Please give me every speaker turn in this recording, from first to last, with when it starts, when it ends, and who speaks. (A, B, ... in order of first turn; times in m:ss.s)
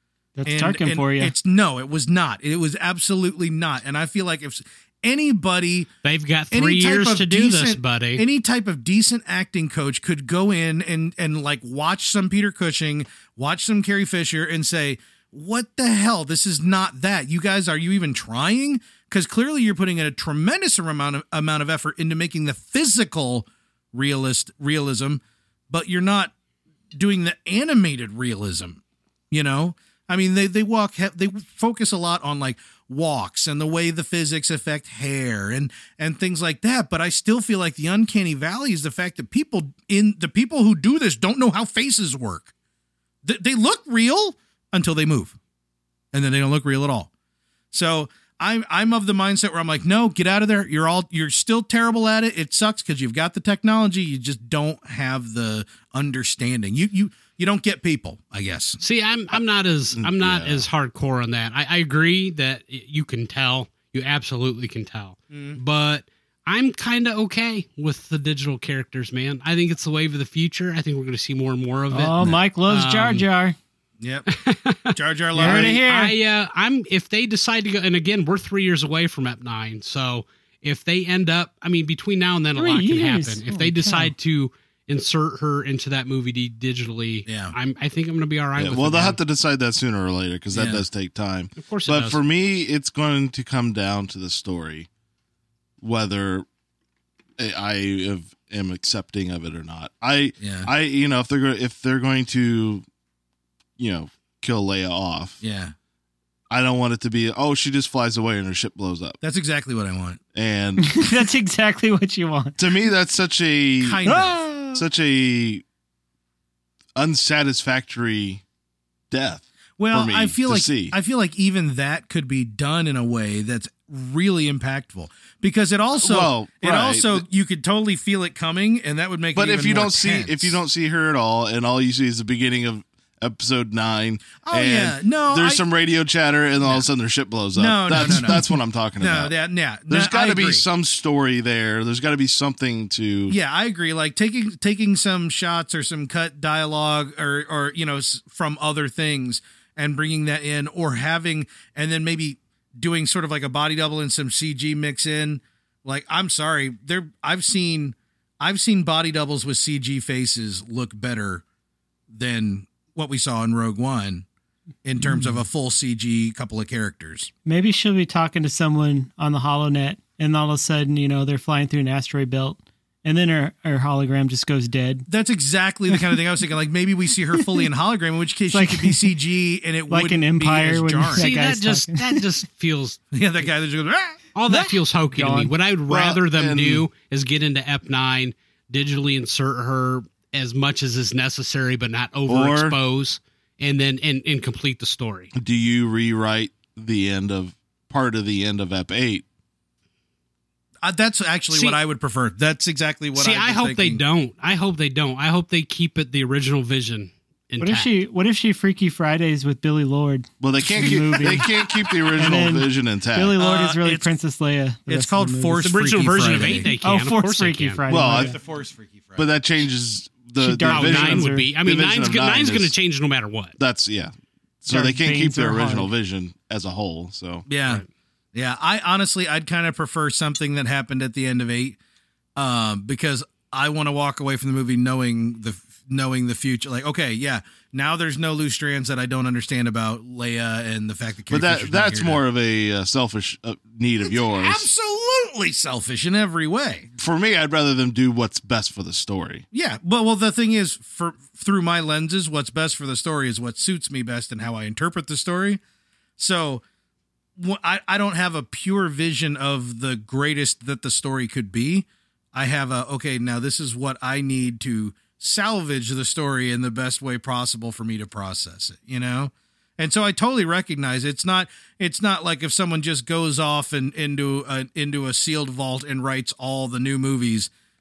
0:00.4-0:01.3 A
0:00.4-0:05.9 B
0:06.0-0:08.2 C
0:06.5-0:26.3 B
0:26.9-0:28.8 B
0:29.3-0:42.5 B
0:43.2-0:45.4 B
0:46.1-0:47.1 B
0:47.7-0:58.8 B
0:58.8-1:13.2 C
1:00.0-1:00.6 D
1:05.3-1:05.6 B
1:11.9-1:13.6 A
1:14.0-1:14.3 B
1:14.3-1:29.2 C
1:14.9-1:15.8 B
1:15.4-1:16.2 A
1:22.6-1:24.1 A
1:27.3-1:27.5 B
1:28.6-1:34.9 D
1:30.5-1:30.8 B
1:31.6-1:32.2 C
1:35.8-1:36.4 D
1:37.4-1:42.8 D
1:40.4-1:40.7 B
1:43.8-1:45.4 D
1:45.4-1:45.7 B
1:46.5-1:49.2 D
1:49.2-1:50.2 B
1:50.3-1:51.0 D
1:50.8-1:52.6 A
1:52.6-1:54.0 D
1:53.8-1:54.8 B
1:54.0-1:54.7 A
1:54.7-1:55.6 D
1:56.9-1:58.4 D
1:59.1-2:00.9 D
1:59.8-2:10.6 B
2:06.0-2:07.2 D
2:09.3-2:19.3 D
2:14.4-2:15.6 B
2:17.5-2:18.5 B
2:19.0-2:20.6 B
2:19.9-2:23.4 D
2:23.3-2:41.4 B
2:42.1-2:44.2 B
2:44.8-2:47.3 B
2:45.0-2:45.4 A
2:47.4-2:55.1 A
2:55.1-3:01.3 B
2:58.5-2:59.1 A
2:59.9-3:02.2 A
3:01.1-3:03.0 C
3:03.1-3:04.2 B
3:04.3-3:15.3 C
3:04.5-3:05.5 A
3:05.9-3:06.9 D
3:12.3-3:12.8 D
3:15.3-3:19.2 D
3:20.8-3:24.0 B
3:21.5-3:21.8 C
3:23.1-3:27.9 C
3:27.6-3:31.5 A
3:30.4-3:33.4 D
3:32.1-3:35.7 A
3:33.4-3:34.1 B
3:34.9-3:36.7 B
3:35.6-3:37.8 C
3:36.6-3:38.4 A
3:37.9-3:38.4 D
3:38.0-3:39.3 B
3:39.2-3:42.7 D
3:40.4-3:41.5 A
3:40.7-3:43.6 C
3:43.6-3:47.4 D
3:44.7-3:45.9 A
3:47.5-3:51.8 B
3:52.4-4:02.2 B
4:01.3-4:04.7 D
4:04.0-4:06.9 B
4:07.0-4:09.4 D
4:09.5-4:15.6 B
4:16.2-4:16.6 B
4:17.4-4:37.5 B